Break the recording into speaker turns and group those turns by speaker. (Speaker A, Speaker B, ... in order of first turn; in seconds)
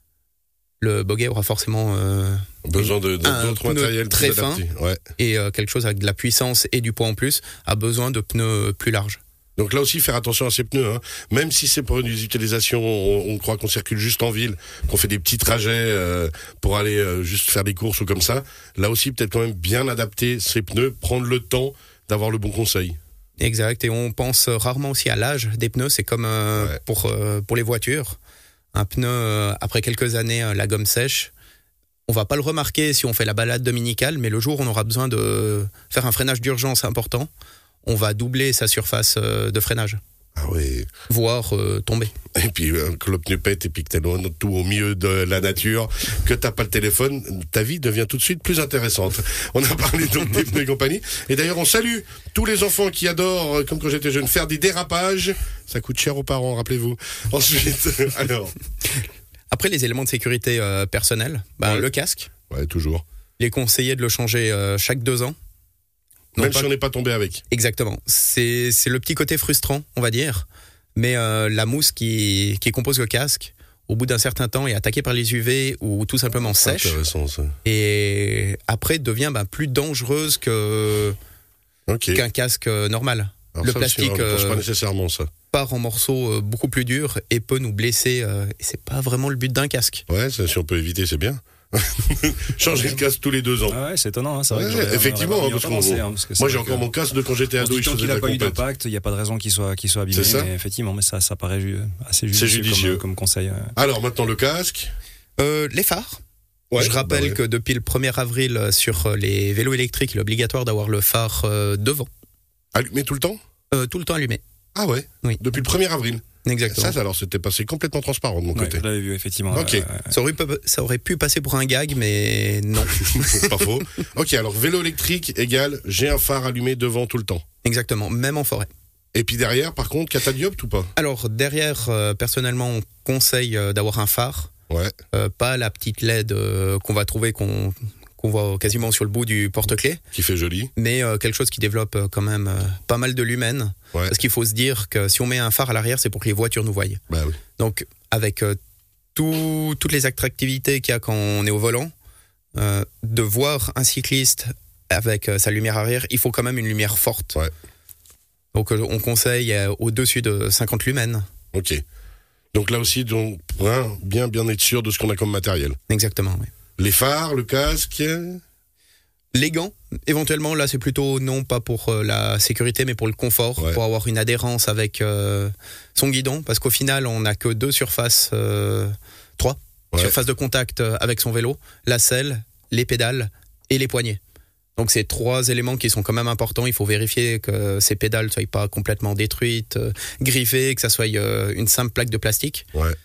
Speaker A: 0.8-4.6, 5.2-9.2, 23.4-28.2, 28.7-31.3, 32.1-37.3, 37.8-40.0, 41.1-42.1, 59.5-62.3, 63.4-65.3, 66.3-66.7, 67.5-77.0, 77.6-81.2, 82.1-84.6, 85.5-90.0, 105.4-106.2, 106.8-112.1, 113.7-114.4, 116.4-117.0, 120.1-123.5, 127.6-128.7, 130.9-134.5, 135.1-140.0, 140.8-147.0, 147.6-148.6, 149.1-151.9, 152.5-157.4, 158.5-161.2, 165.9-166.5, 169.3-184.2, 184.8-192.7
Speaker B: 2.6-5.0, 9.6-23.0, 40.4-40.9, 42.3-58.5, 62.5-63.0, 66.4-67.4, 76.6-77.5, 81.9-82.2, 83.5-85.3, 90.1-93.8, 94.5-98.6, 100.1-100.5, 102.3-103.0, 103.8-104.9, 106.7-107.4, 112.7-113.4, 114.7-118.8, 119.5-119.9, 123.1-127.4, 129.1-130.9, 140.1-140.7, 147.1-147.4, 161.5-161.8, 162.5-165.8, 166.8-168.4
Speaker C: 93.7-96.9, 97.6-103.7, 118.5-120.1